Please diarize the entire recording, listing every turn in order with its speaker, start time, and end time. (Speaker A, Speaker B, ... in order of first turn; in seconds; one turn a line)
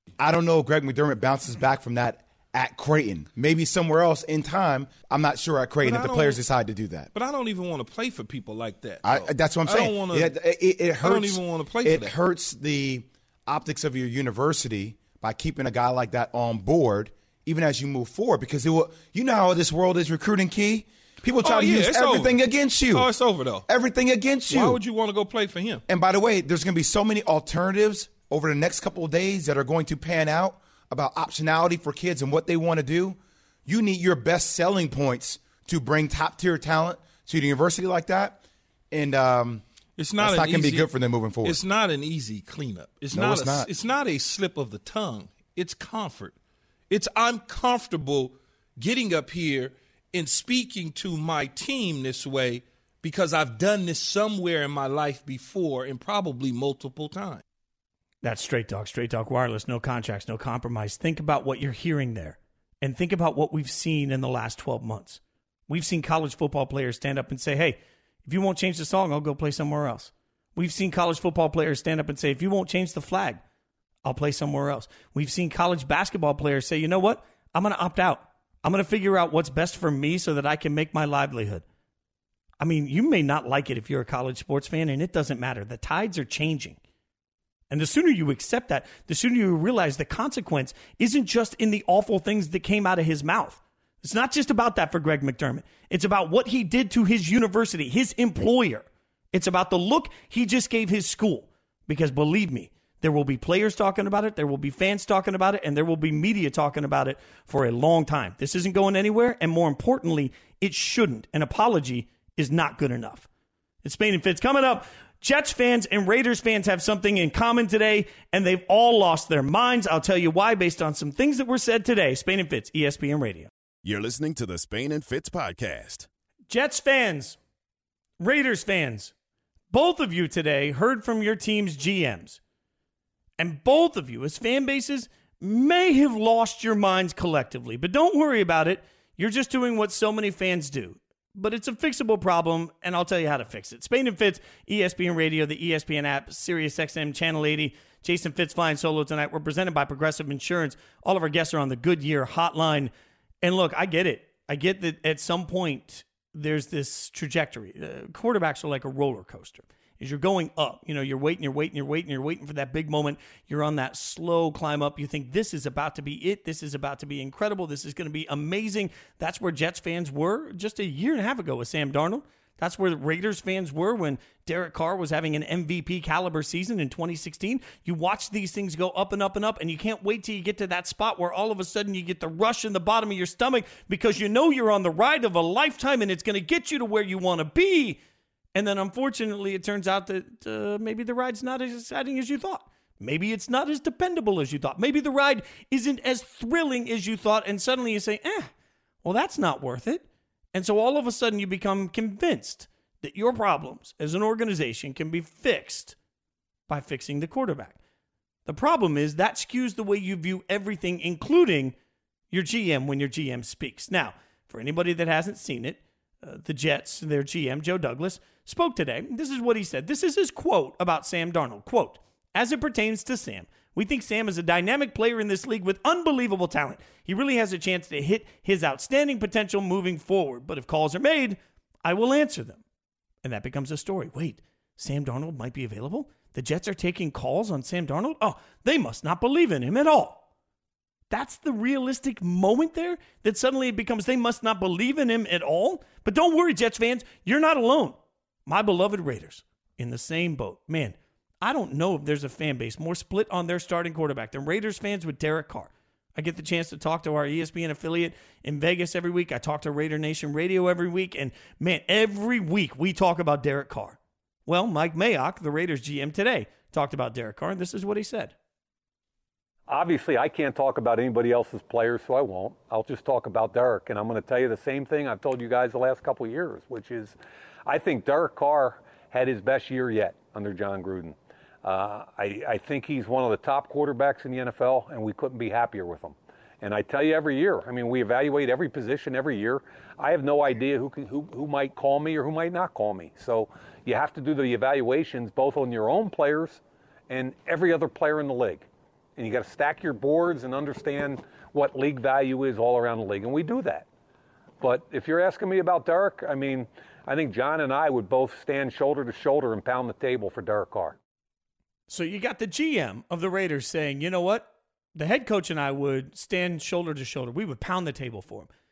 Speaker A: 0.2-7.1
Speaker B: 5.8-6.4
Speaker B: 7.1-10.4
Speaker A: 9.0-24.8
Speaker B: 11.0-12.1
Speaker B: 21.4-23.7
Speaker B: 24.5-25.8
Speaker A: 25.9-39.6
Speaker B: 40.0-40.9
Speaker A: 40.2-41.6
Speaker B: 41.4-46.4
Speaker A: 43.1-43.7
Speaker B: 46.9-57.4
Speaker C: 58.2-73.4
Speaker C: 74.0-81.6
Speaker C: 82.6-86.8
Speaker C: 87.7-113.3
Speaker C: 113.8-123.5
Speaker D: 123.8-126.1
Speaker C: 126.5-127.4
Speaker C: 128.2-129.1
Speaker C: 129.7-132.4
Speaker C: 133.4-152.9
Speaker C: 153.4-188.0
Speaker C: 188.6-198.5
Speaker C: 199.0-206.0
Speaker C: 206.7-207.8
Speaker C: 208.5-211.7
Speaker C: 212.3-232.6
Speaker C: 233.2-240.2
Speaker C: 241.1-268.4
Speaker E: 269.7-303.9
Speaker E: 304.6-311.0
Speaker C: 311.9-318.5